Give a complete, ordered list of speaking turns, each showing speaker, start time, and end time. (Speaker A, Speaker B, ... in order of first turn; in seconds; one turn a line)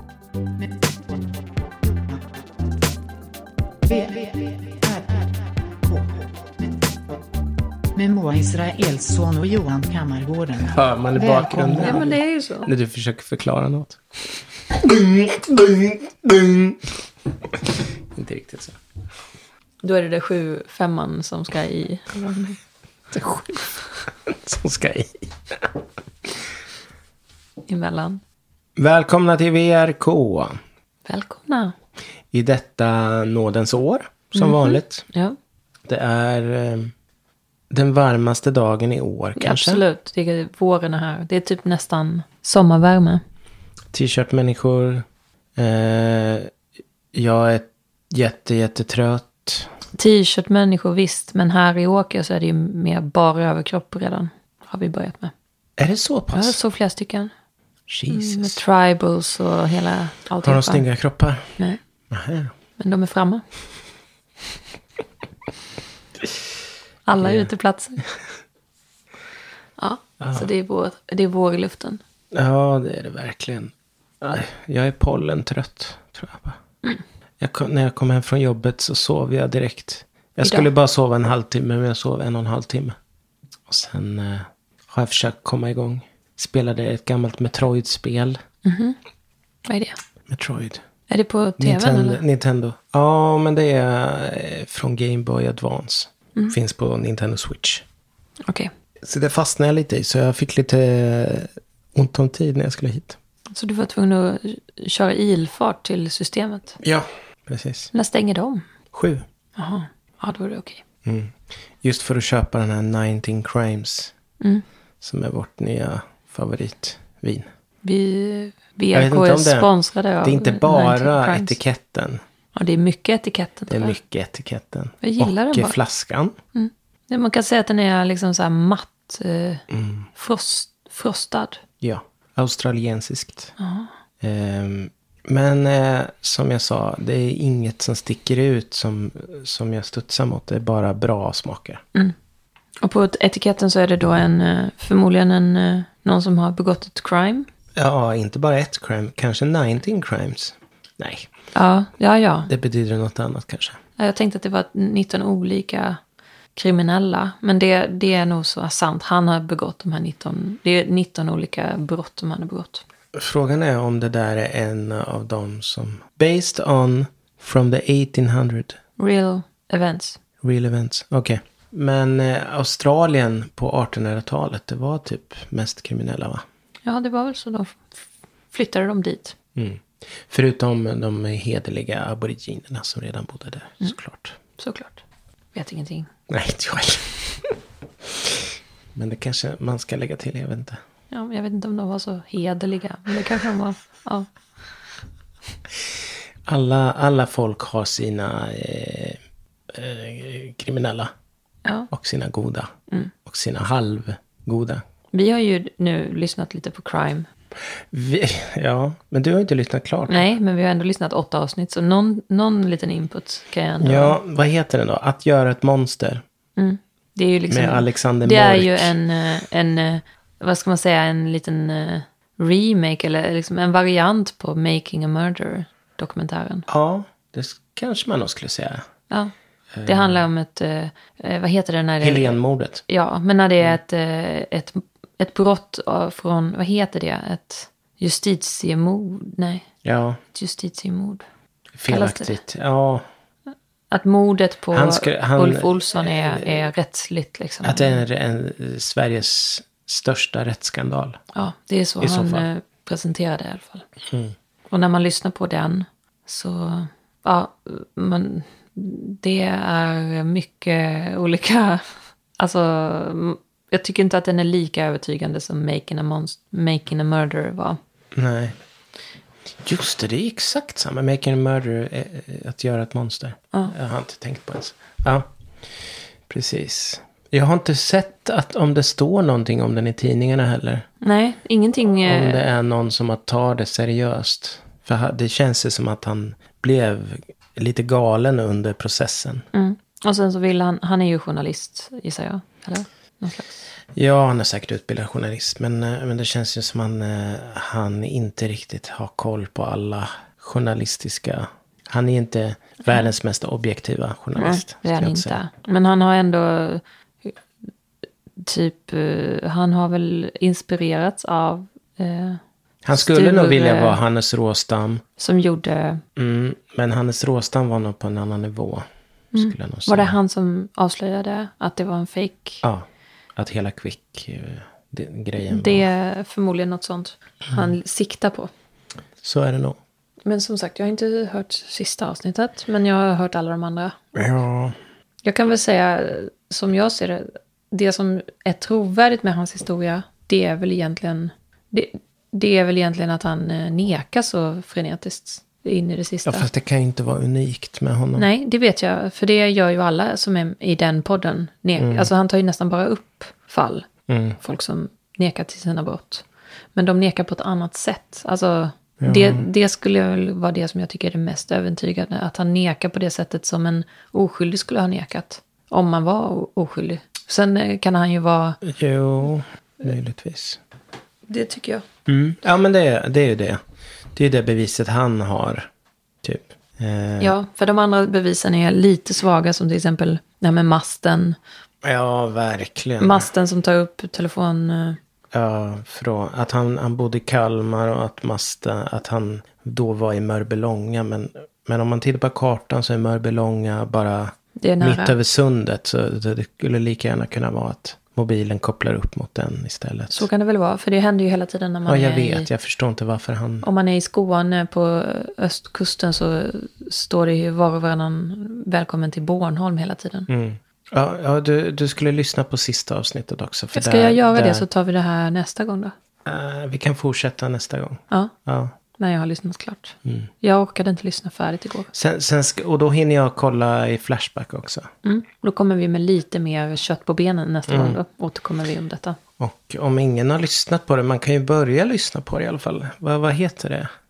Speaker A: 3.9-5.3
Speaker A: 5.8-6.3
Speaker A: 8.0-12.1
Speaker B: 10.7-14.0
Speaker C: 11.8-12.7
Speaker B: 14.7-16.9
Speaker B: 17.5-18.8
Speaker C: 19.8-22.6
Speaker B: 23.1-26.3
Speaker C: 27.7-28.2
Speaker B: 28.8-30.6
Speaker C: 31.1-31.8
Speaker B: 32.3-35.1
Speaker C: 34.3-35.4
Speaker B: 35.9-36.9
Speaker B: 37.7-39.8
Speaker C: 39.4-43.2
Speaker B: 43.9-46.5
Speaker B: 47.1-49.7
Speaker C: 50.0-55.3
Speaker B: 55.8-56.6
Speaker C: 56.3-57.3
Speaker B: 57.9-58.6
Speaker C: 58.1-60.9
Speaker B: 60.4-61.5
Speaker B: 62.1-62.5
Speaker C: 62.8-63.4
Speaker C: 67.1-68.0
Speaker B: 67.2-67.5
Speaker C: 69.8-72.0
Speaker B: 70.2-70.5
Speaker B: 72.3-76.6
Speaker B: 77.4-83.0
Speaker C: 80.4-80.7
Speaker B: 83.7-88.4
Speaker C: 88.7-89.0
Speaker C: 89.7-90.0
Speaker B: 90.3-90.8
Speaker C: 91.1-92.2
Speaker B: 91.6-97.9
Speaker B: 99.0-103.2
Speaker C: 103.5-106.8
Speaker B: 106.8-107.9
Speaker C: 107.9-108.7
Speaker B: 108.9-109.2
Speaker C: 109.6-110.8
Speaker B: 111.0-114.1
Speaker B: 115.0-117.5
Speaker C: 117.8-121.6
Speaker B: 118.9-119.7
Speaker B: 120.2-122.2
Speaker C: 122.5-124.0
Speaker B: 123.7-126.4
Speaker C: 125.0-125.8
Speaker C: 126.5-131.6
Speaker B: 129.7-130.1
Speaker B: 131.8-133.5
Speaker C: 133.6-133.9
Speaker B: 134.2-141.8
Speaker C: 142.8-147.5
Speaker B: 147.8-151.3
Speaker C: 151.5-152.5
Speaker B: 152.5-153.8
Speaker C: 154.0-156.0
Speaker C: 156.6-162.8
Speaker B: 163.1-168.8
Speaker C: 169.0-170.2
Speaker B: 170.4-176.4
Speaker C: 176.8-178.0
Speaker C: 178.5-179.4
Speaker B: 179.6-184.4
Speaker C: 184.6-185.0
Speaker C: 185.5-186.1
Speaker B: 186.3-190.8
Speaker C: 191.1-194.3
Speaker B: 196.5-199.2
Speaker B: 199.7-201.1
Speaker C: 201.7-201.9
Speaker B: 201.9-202.7
Speaker B: 203.2-204.8
Speaker C: 205.1-207.3
Speaker B: 207.9-210.3
Speaker C: 210.1-214.2
Speaker B: 213.8-216.2
Speaker C: 216.6-226.7
Speaker B: 217.5-218.9
Speaker B: 226.7-228.8
Speaker B: 229.7-230.2
Speaker C: 229.8-239.7
Speaker B: 232.0-232.8
Speaker B: 239.8-240.2
Speaker C: 240.3-241.2
Speaker B: 241.8-243.1
Speaker C: 241.9-242.4
Speaker C: 243.9-248.0
Speaker B: 244.7-246.6
Speaker B: 247.6-251.2
Speaker C: 251.3-253.9
Speaker B: 252.0-252.5
Speaker B: 254.1-254.3
Speaker C: 254.7-261.8
Speaker C: 262.4-267.8
Speaker B: 268.1-268.6
Speaker B: 269.6-280.9
Speaker C: 281.0-282.4
Speaker B: 282.1-289.4
Speaker C: 289.5-293.6
Speaker B: 293.9-305.4
Speaker C: 304.4-307.3
Speaker C: 308.4-312.4
Speaker B: 312.8-315.0
Speaker C: 312.9-314.0
Speaker C: 315.2-316.0
Speaker B: 316.2-320.2
Speaker C: 319.3-322.6
Speaker B: 322.6-325.9
Speaker C: 325.4-328.5
Speaker B: 329.2-329.8
Speaker C: 330.3-334.0
Speaker B: 334.1-334.8
Speaker C: 335.2-346.5
Speaker B: 346.2-348.3
Speaker C: 348.2-353.9
Speaker B: 351.8-352.1
Speaker B: 354.1-354.4
Speaker C: 354.4-368.6
Speaker B: 359.0-359.4
Speaker B: 368.6-370.6
Speaker C: 371.3-371.9
Speaker B: 372.1-373.6
Speaker B: 374.1-375.7
Speaker B: 376.2-377.4
Speaker C: 377.2-381.4
Speaker B: 381.8-383.3
Speaker C: 383.0-385.0
Speaker B: 385.3-400.3
Speaker C: 394.6-395.2
Speaker C: 400.1-402.5
Speaker B: 401.9-403.7
Speaker C: 403.6-410.3
Speaker B: 410.3-414.6
Speaker C: 413.7-415.9
Speaker B: 416.2-418.7
Speaker C: 419.0-421.9
Speaker B: 421.9-424.9
Speaker C: 425.0-429.2
Speaker B: 427.7-428.0
Speaker B: 429.4-433.9